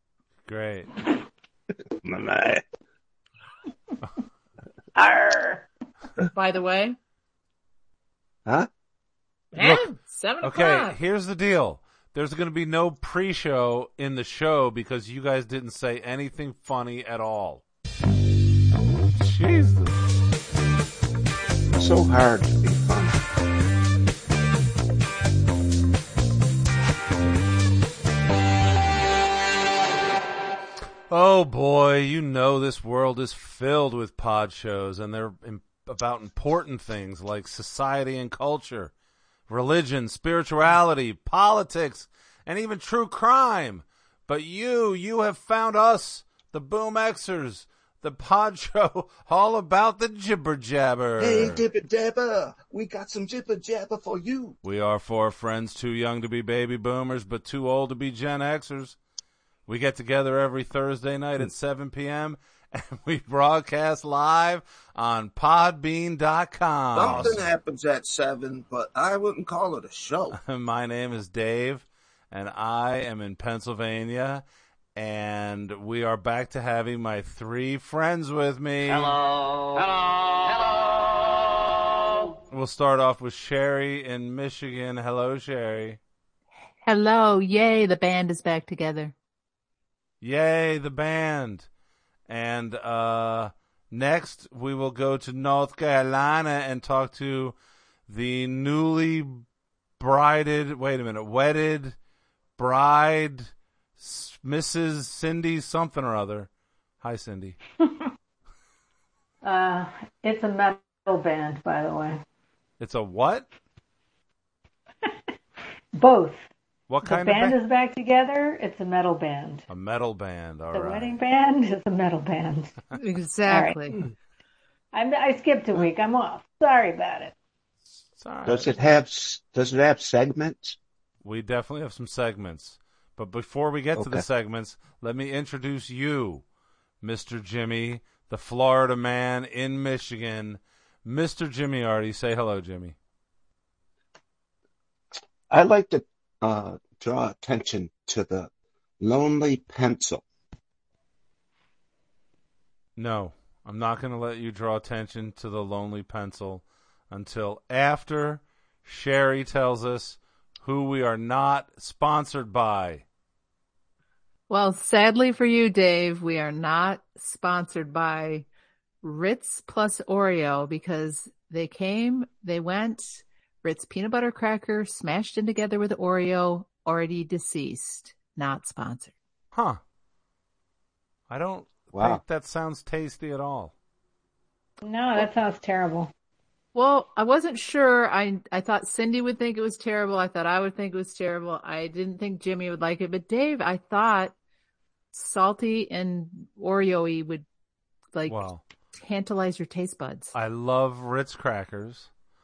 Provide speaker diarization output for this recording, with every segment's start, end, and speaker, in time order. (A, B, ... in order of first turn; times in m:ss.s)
0:00.4-0:00.9 A
0:02.0-0:02.6 B
0:04.9-0:05.7 C
0:06.3-0:07.0 D
0:09.5-0:11.0 D
0:09.6-0:09.9 A
0:10.4-0:17.6 A
0:19.1-0:20.0 A
0:21.7-0:23.2 B
0:31.1-0:38.9 A
0:39.5-0:51.6 A
0:51.2-0:54.6 B
0:54.6-0:59.0 A
0:59.7-1:07.4 A
1:06.9-1:10.4 B
1:10.3-1:14.4 A
1:14.9-1:19.2 A
1:22.5-1:26.0 A
1:26.8-1:29.1 D
1:30.2-1:31.7 A
1:32.3-1:37.6 A
1:38.1-1:39.4 A
1:40.0-1:41.9 A
1:42.6-1:46.5 A
1:47.0-1:47.6 A
1:49.4-1:52.2 C
1:52.8-1:53.5 A
1:55.9-1:56.4 C
1:56.9-1:57.6 A
1:57.0-1:59.6 C
1:59.7-2:01.2 A
2:00.7-2:02.8 C
2:02.9-2:04.0 D
2:03.4-2:03.8 C
2:04.9-2:07.3 C
2:08.2-2:08.7 A
2:08.4-2:10.8 B
2:11.2-2:16.4 A
2:14.0-2:14.2 B
2:17.0-2:22.9 A
2:25.5-2:30.2 B
2:33.0-2:43.0 A
2:44.5-2:48.4 D
2:49.0-2:59.1 D
2:59.5-2:59.8 A
3:01.3-3:03.7 A
3:01.9-3:02.2 B
3:04.8-3:06.1 C
3:06.7-3:14.3 D
3:15.1-3:17.4 D
3:18.1-3:20.3 D
3:18.3-3:18.6 A
3:20.3-3:22.1 A